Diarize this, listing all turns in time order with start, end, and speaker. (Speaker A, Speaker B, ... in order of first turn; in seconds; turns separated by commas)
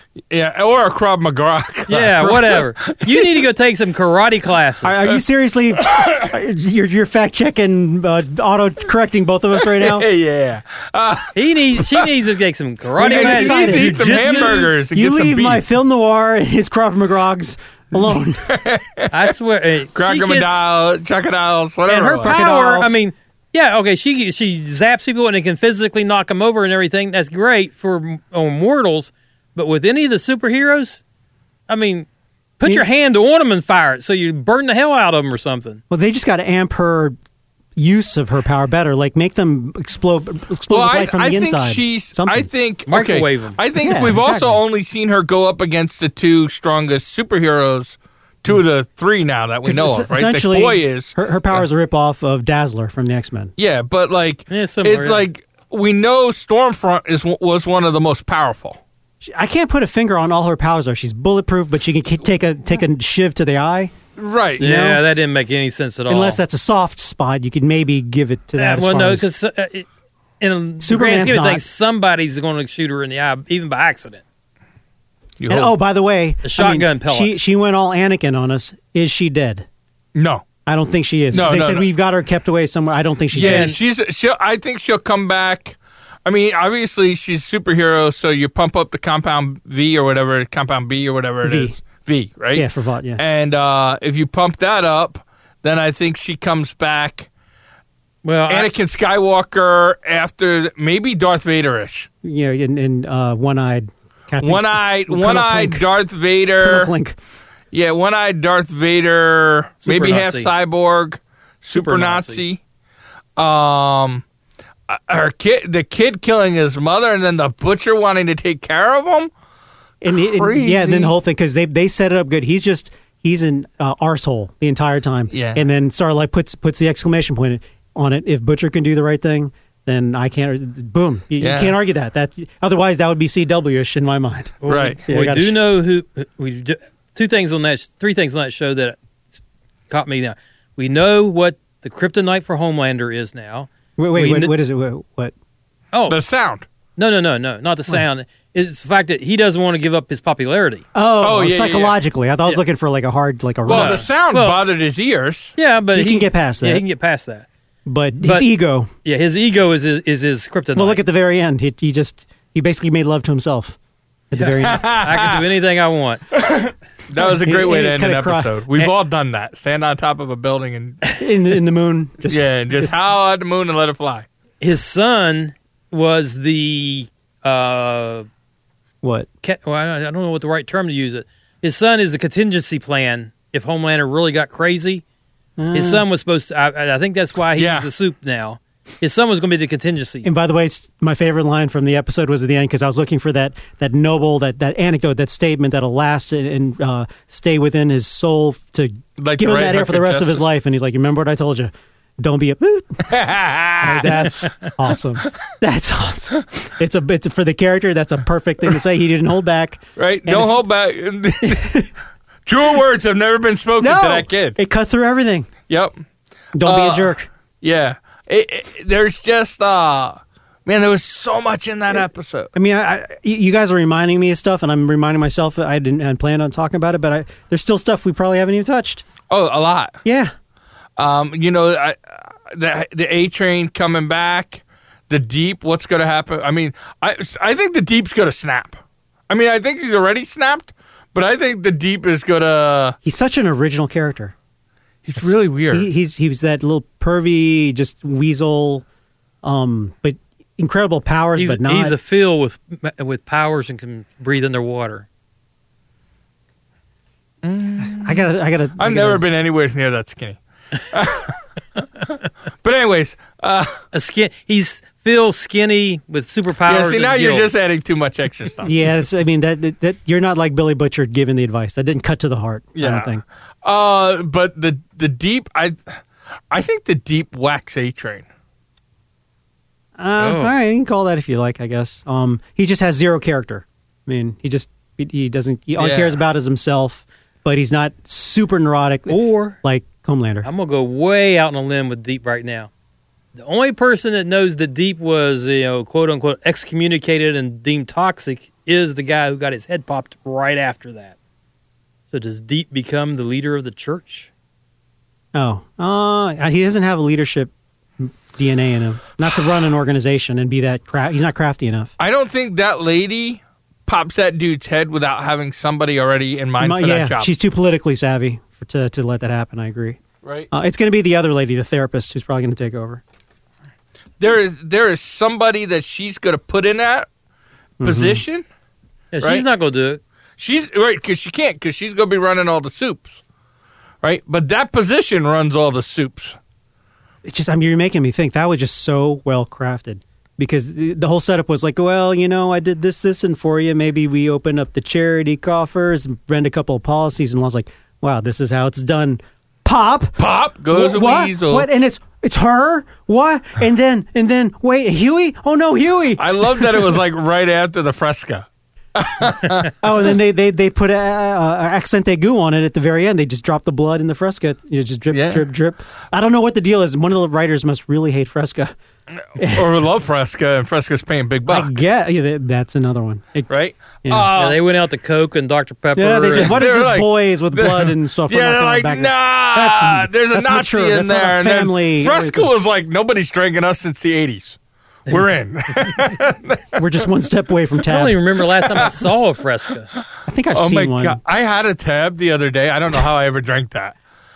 Speaker A: 0.3-3.4, Speaker B: 1.9-5.0, Speaker C: 4.8-10.1, Speaker A: 5.8-6.2, Speaker A: 9.6-12.1, Speaker B: 11.3-14.7, Speaker A: 13.0-15.6, Speaker C: 13.0-18.5, Speaker A: 18.4-19.3, Speaker B: 19.1-20.6, Speaker A: 19.9-22.4, Speaker B: 21.9-31.0, Speaker C: 22.2-22.9, Speaker B: 31.7-32.1, Speaker B: 32.6-35.8, Speaker C: 35.9-37.1, Speaker C: 37.8-42.5, Speaker A: 40.7-51.6, Speaker B: 42.9-43.6, Speaker C: 43.8-44.6, Speaker C: 49.6-53.5, Speaker A: 53.6-58.8, Speaker B: 54.5-55.3, Speaker C: 59.2-63.9, Speaker A: 64.2-64.9, Speaker B: 64.6-66.4, Speaker C: 64.6-65.0, Speaker C: 66.1-69.3, Speaker B: 68.5-69.9, Speaker B: 70.4-74.2, Speaker C: 70.8-71.6, Speaker A: 75.4-75.7, Speaker C: 75.5-79.7, Speaker B: 76.4-77.4, Speaker A: 80.1-80.4, Speaker C: 80.7-83.7, Speaker A: 81.3-81.9, Speaker A: 83.3-92.7, Speaker B: 83.3-83.8, Speaker C: 91.4-91.8, Speaker C: 92.5-93.2, Speaker A: 93.2-97.3, Speaker B: 98.2-98.7, Speaker A: 98.5-102.1, Speaker C: 102.2-105.8, Speaker A: 104.4-106.9, Speaker C: 106.6-107.2, Speaker A: 107.7-112.6, Speaker B: 109.8-110.5, Speaker B: 111.7-112.4, Speaker A: 113.4-114.2, Speaker A: 114.9-119.3, Speaker C: 120.0-135.6, Speaker A: 120.2-121.1, Speaker A: 125.3-125.6, Speaker A: 131.4-131.8, Speaker B: 134.6-139.0, Speaker A: 134.7-135.0, Speaker B: 139.9-144.5, Speaker C: 144.0-145.3, Speaker B: 145.9-146.2, Speaker A: 146.1-146.7, Speaker B: 147.0-150.8, Speaker C: 150.9-154.0, Speaker A: 151.2-152.0, Speaker A: 153.7-155.6, Speaker B: 153.7-154.6, Speaker B: 155.6-157.5, Speaker C: 155.9-156.8, Speaker C: 157.8-158.9, Speaker B: 158.2-158.5, Speaker B: 159.0-161.0, Speaker C: 160.7-163.8, Speaker C: 164.3-164.9, Speaker B: 164.3-166.2, Speaker A: 164.6-165.4, Speaker A: 166.3-171.0, Speaker C: 167.2-168.8, Speaker C: 171.2-172.9, Speaker A: 172.3-174.2, Speaker B: 174.6-178.3, Speaker C: 179.0-179.3, Speaker B: 179.4-185.0, Speaker C: 185.6-186.0, Speaker B: 185.7-190.3, Speaker A: 187.6-187.9, Speaker C: 190.2-203.0, Speaker A: 199.2-200.4, Speaker A: 203.1-204.3, Speaker C: 203.8-210.6, Speaker A: 209.9-211.8, Speaker C: 211.4-211.9, Speaker A: 212.4-214.6, Speaker C: 213.8-215.5, Speaker A: 215.7-215.9, Speaker C: 216.5-217.3, Speaker A: 216.6-222.5, Speaker C: 222.5-229.1, Speaker A: 229.3-230.0, Speaker C: 230.0-230.3, Speaker A: 231.0-243.0, Speaker C: 243.0-244.3, Speaker A: 245.0-245.9, Speaker C: 245.2-248.8, Speaker C: 249.4-251.9, Speaker B: 251.3-255.1, Speaker A: 257.4-263.8, Speaker C: 257.9-259.2, Speaker B: 263.9-267.6, Speaker A: 266.7-268.7, Speaker C: 268.6-273.2, Speaker A: 272.8-275.9, Speaker A: 276.5-278.3, Speaker C: 280.0-290.5, Speaker B: 280.2-280.5, Speaker A: 285.8-286.2, Speaker B: 289.1-289.6, Speaker B: 290.4-292.7, Speaker B: 293.3-301.1, Speaker B: 302.1-304.3, Speaker C: 305.3-311.9, Speaker A: 312.0-317.3, Speaker C: 316.6-320.0, Speaker A: 320.2-320.5, Speaker C: 320.5-323.0, Speaker A: 324.2-327.1, Speaker C: 327.8-328.2, Speaker A: 327.8-328.4, Speaker B: 329.1-330.0, Speaker A: 330.4-333.1, Speaker A: 334.0-336.4, Speaker C: 337.2-350.2, Speaker A: 350.2-351.7, Speaker C: 350.7-356.9, Speaker A: 356.2-359.7, Speaker C: 359.7-368.7, Speaker A: 365.1-365.4, Speaker A: 369.3-371.8, Speaker C: 369.4-369.7, Speaker C: 371.5-373.5, Speaker A: 373.5-374.6, Speaker C: 374.0-374.3, Speaker B: 374.3-376.6, Speaker C: 375.9-382.5, Speaker A: 376.3-386.8, Speaker C: 386.8-388.3, Speaker B: 387.8-389.9, Speaker C: 390.2-391.2, Speaker A: 390.5-393.9